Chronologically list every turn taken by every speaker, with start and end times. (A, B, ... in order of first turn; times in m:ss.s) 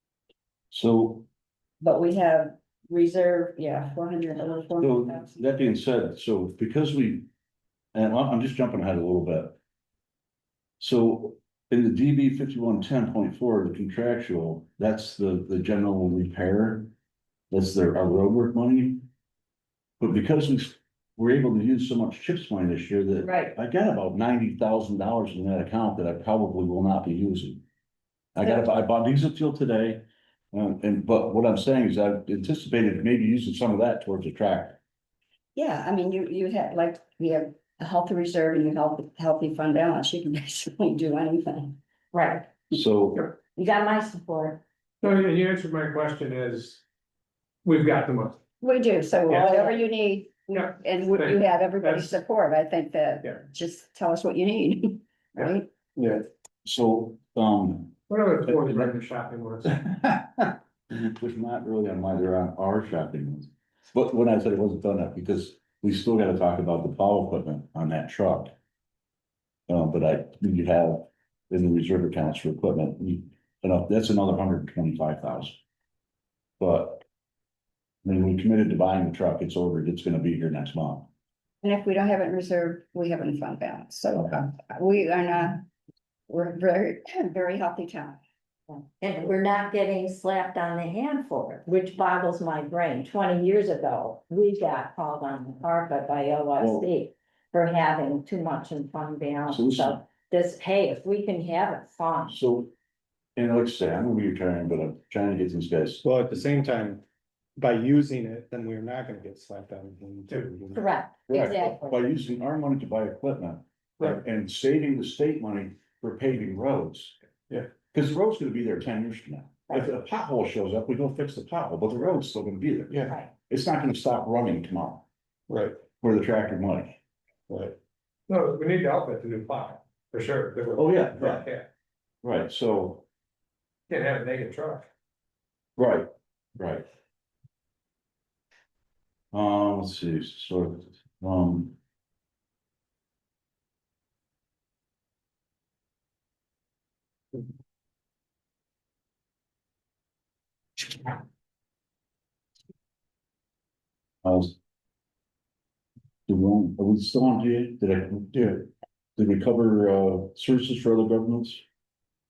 0:00.7-0:01.3 A
0:01.8-0:05.3 B
0:04.8-0:07.3 A
0:07.9-0:09.6 A
0:10.8-0:16.9 A
0:17.5-0:19.0 A
0:20.0-0:27.6 A
0:23.2-0:23.5 C
0:28.4-0:34.8 A
0:35.6-0:41.8 B
0:42.1-0:42.5 C
0:42.7-0:43.3 A
0:43.4-0:44.6 C
0:45.0-0:46.8 D
0:47.6-0:48.4 D
0:48.6-0:55.7 B
0:49.3-0:49.8 D
0:50.5-0:52.1 D
0:56.0-0:56.3 E
0:56.6-0:58.0 A
0:58.1-0:59.8 D
0:59.7-1:08.5 A
1:09.7-1:15.6 A
1:16.6-1:17.0 A
1:18.0-1:21.1 A
1:21.6-1:25.6 B
1:26.3-1:28.2 B
1:28.7-1:42.4 C
1:36.6-1:36.9 A
1:39.5-1:40.0 A
1:42.3-1:42.7 A
1:43.4-1:46.0 A
1:46.0-1:47.0 E
1:47.6-1:50.9 E
1:50.7-1:52.0 C
1:51.3-1:57.2 A
1:57.9-2:05.1 A
2:02.9-2:03.2 E
2:05.5-2:05.8 E
2:06.0-2:07.0 A
2:07.5-2:07.8 E
2:08.3-2:11.7 D
2:10.8-2:11.5 A
2:12.2-2:13.0 A
2:13.9-2:14.9 D
2:15.8-2:16.9 A
2:19.3-2:21.8 A
2:34.2-2:34.6 A
2:36.3-2:41.6 A